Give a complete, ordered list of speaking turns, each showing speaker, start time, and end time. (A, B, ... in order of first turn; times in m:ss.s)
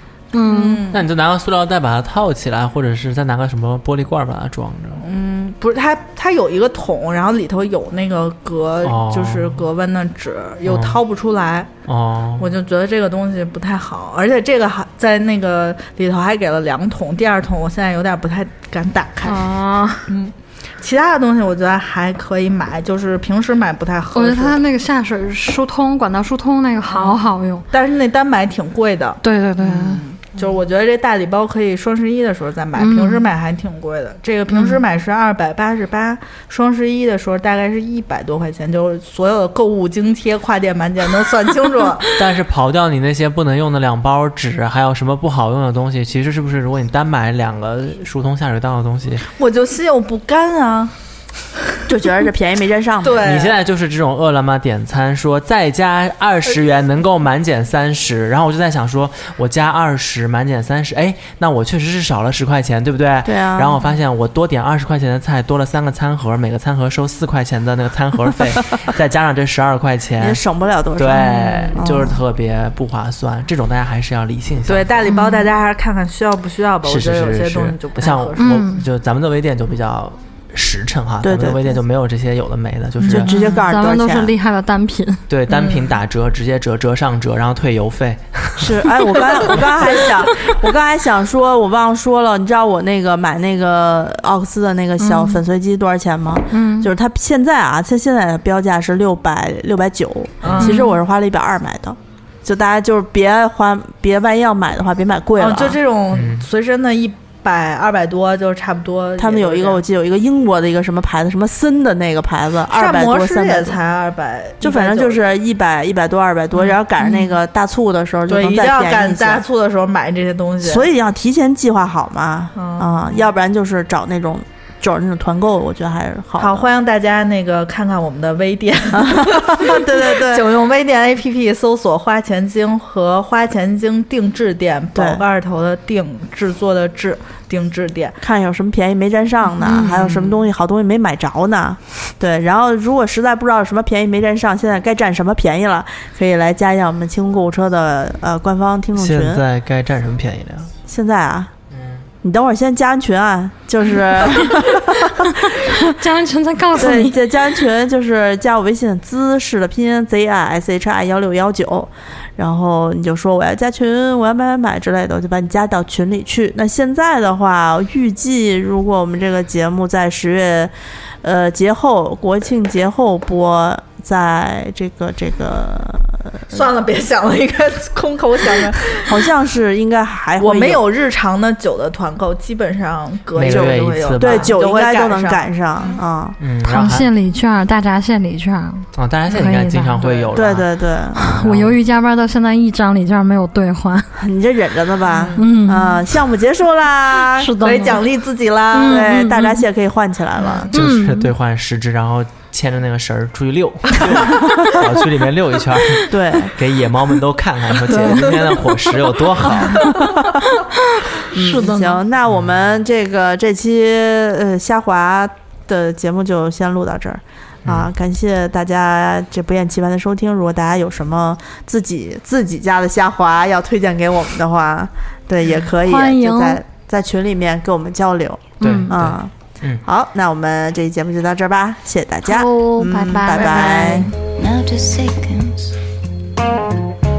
0:00.3-0:00.8 A
0:00.4-0:01.0 B
0:00.9-0:05.0 C
0:05.0-0:11.7 B
0:08.8-0:09.7 C
0:10.6-0:11.0 C
0:11.9-0:12.6 C
0:12.4-0:19.4 B
0:19.2-0:20.1 A
0:20.1-0:24.6 B
0:24.1-0:27.6 A
0:26.9-0:27.2 B
0:27.7-0:42.2 B
0:29.2-0:30.0 A
0:32.8-0:33.3 A
0:34.5-0:34.8 A
0:42.2-0:49.2 C
0:49.3-0:50.9 B
0:51.9-0:53.2 D
0:53.0-0:53.6 B
0:53.2-1:10.4 C
1:03.2-1:03.8 D
1:10.2-1:12.2 D
1:11.0-1:15.1 C
1:11.3-1:11.8 B
1:14.7-1:18.6 B
1:15.0-1:15.4 A
1:16.8-1:23.3 C
1:18.4-1:18.8 A
1:21.2-1:21.8 D
1:23.0-1:23.6 B
1:23.1-1:24.3 D
1:23.7-1:25.2 A
1:25.3-1:30.0 C
1:25.5-1:26.0 B
1:28.6-1:45.8 D
1:35.0-1:35.4 A
1:36.5-1:36.9 A
1:40.4-1:40.8 B
1:40.6-1:41.0 A
1:45.4-1:49.8 B
1:46.1-1:46.5 C
1:49.2-1:53.8 D
1:52.7-1:55.2 B
1:54.6-1:59.4 D
1:57.0-1:57.3 A
1:58.3-2:00.9 B
2:00.6-2:06.7 D
2:02.6-2:03.2 B
2:06.4-2:18.2 B
2:08.9-2:10.4 D
2:14.9-2:15.2 D
2:18.2-2:29.4 D
2:19.6-2:20.4 B
2:29.0-2:30.7 C
2:30.9-2:31.5 D
2:31.7-2:32.1 C
2:32.2-2:35.8 D
2:35.5-2:37.2 A
2:36.8-2:50.7 D
2:51.2-2:56.7 D
2:56.5-2:59.2 B
2:58.9-3:00.8 D
3:00.4-3:06.0 B
3:03.4-3:04.6 C
3:03.5-3:06.4 D
3:06.4-3:07.1 C
3:06.6-3:10.1 A
3:09.0-3:10.7 C
3:10.0-3:10.3 B
3:10.4-3:11.5 D
3:11.2-3:14.1 A
3:11.3-3:11.8 C
3:14.2-3:17.6 D
3:15.0-3:15.4 B
3:15.4-3:16.0 A
3:17.4-3:18.0 A
3:17.6-3:19.2 B
3:18.7-3:19.6 A
3:18.8-3:20.7 D
3:20.7-3:21.3 A
3:20.7-3:30.0 C
3:24.2-3:24.8 D
3:26.1-3:26.5 D
3:30.6-3:32.0 A
3:31.3-3:49.3 D
3:32.3-3:32.6 C
3:37.6-3:37.9 C
3:45.8-3:46.6 A
3:48.6-3:49.8 C
3:48.6-3:49.0 A
3:49.8-3:54.1 D
3:52.3-3:54.1 A
3:52.4-3:55.8 E